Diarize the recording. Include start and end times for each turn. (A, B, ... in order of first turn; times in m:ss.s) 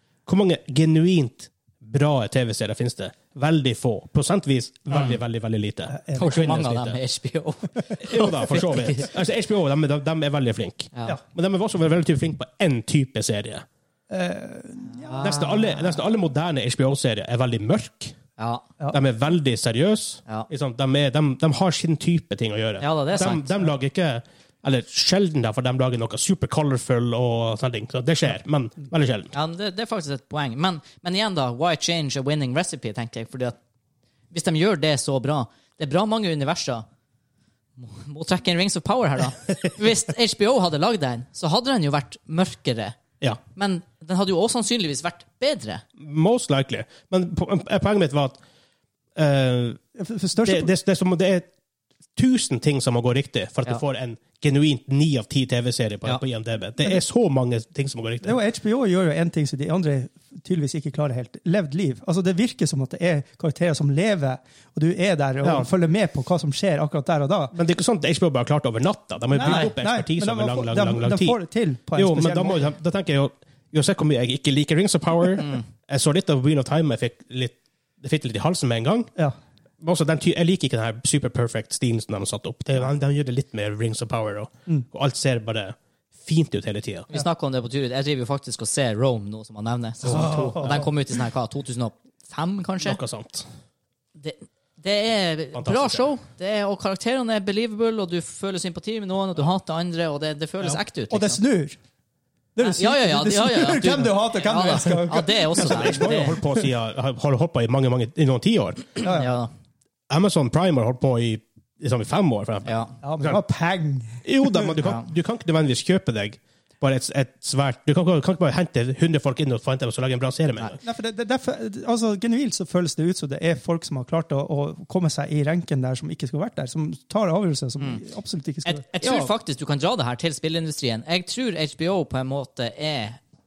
0:00.2-0:07.0 A
0:05.9-0:06.3 B
0:06.2-0:09.1 C
0:08.0-0:13.6 A
0:14.1-0:15.8 B
0:15.0-0:15.7 C
0:15.2-0:18.2 A
0:18.4-0:18.6 C
0:18.9-0:29.3 A
0:22.8-0:23.5 C
0:29.3-0:33.6 C
0:34.3-0:36.8 C
0:37.8-0:43.0 C
0:43.5-0:45.8 C
0:46.0-0:48.4 A
0:49.2-0:49.8 A
0:50.0-0:50.7 B
0:50.4-0:51.5 A
0:52.2-0:58.4 A
0:58.2-1:07.5 B
1:05.4-1:05.7 A
1:07.5-1:11.4 A
1:09.3-1:12.7 B
1:12.0-1:19.1 A
1:19.8-1:27.1 A
1:27.1-1:33.0 C
1:30.0-1:30.8 A
1:30.4-1:30.8 B
1:32.8-1:33.5 A
1:34.2-1:41.4 C
1:35.5-1:36.0 A
1:41.1-1:41.8 B
1:42.6-1:46.2 B
1:42.6-1:46.4 C
1:45.6-1:48.9 A
1:49.0-1:49.3 B
1:49.0-1:49.5 C
1:50.1-1:53.4 A
1:52.6-1:52.9 C
1:53.0-1:54.7 B
1:54.2-2:00.8 A
2:00.8-2:08.8 B
2:08.6-2:13.2 C
2:09.0-2:09.3 A